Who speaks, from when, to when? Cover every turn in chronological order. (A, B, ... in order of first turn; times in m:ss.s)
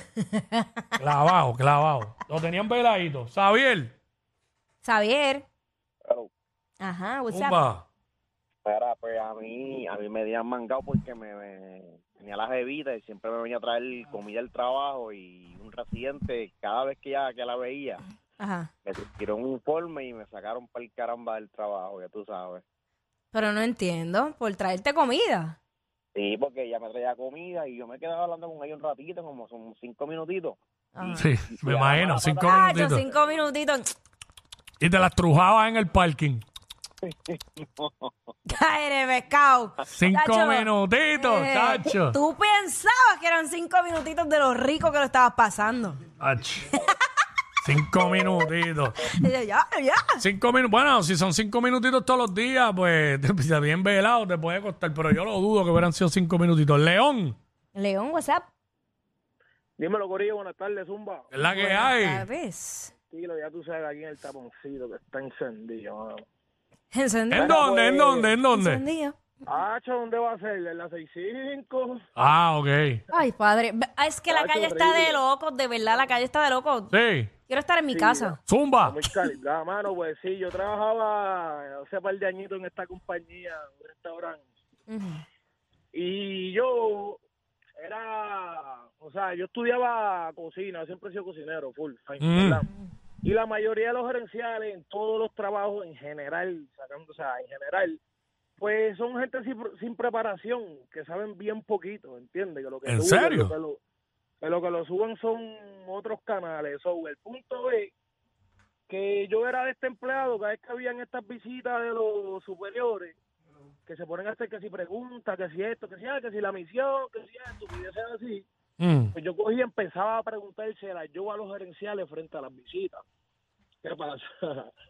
0:00.2-0:00.7 A
0:01.0-0:03.9 B
0:04.8-0:05.4 A
0:06.8-0:07.6 A
0:07.3-0:07.8 B
0:08.6-0:18.0 C
0:18.4-0:18.7 A
0:18.8-0:22.6 C
0:23.3-0:25.6 A
0:26.2-0:32.8 C
0:30.9-0:31.3 A
0:31.2-0:33.0 B
0:32.4-0:33.9 A
0:34.8-0:36.4 B
0:37.0-0:38.1 C
0:38.5-0:46.0 A
0:39.9-0:42.2 B
0:46.2-0:46.7 B
0:47.6-0:49.0 B
0:49.0-0:50.2 A
0:50.2-0:57.4 B
0:57.7-0:58.5 A
0:59.8-1:01.2 D
1:01.3-1:02.2 B
1:01.4-1:02.9 A
1:03.1-1:06.2 D
1:06.9-1:07.6 A
1:07.3-1:08.8 B
1:07.3-1:08.3 D
1:08.5-1:09.2 A
1:09.4-1:12.0 D
1:12.2-1:13.0 B
1:13.1-1:16.9 A
1:14.3-1:15.2 D
1:16.9-1:17.3 B
1:17.5-1:18.4 A
1:17.9-1:18.3 D
1:18.5-1:19.0 B
1:18.9-1:24.4 D
1:24.9-1:25.2 A
1:25.9-1:27.2 D
1:27.8-1:32.7 D
1:32.2-1:32.6 B
1:33.2-1:38.0 D
1:38.6-1:43.8 D
1:42.8-1:43.5 B
1:44.4-1:47.9 D
1:48.9-1:53.1 D
1:53.8-1:58.4 D
1:58.8-1:59.1 B
1:59.2-2:03.0 D
2:03.8-2:04.7 D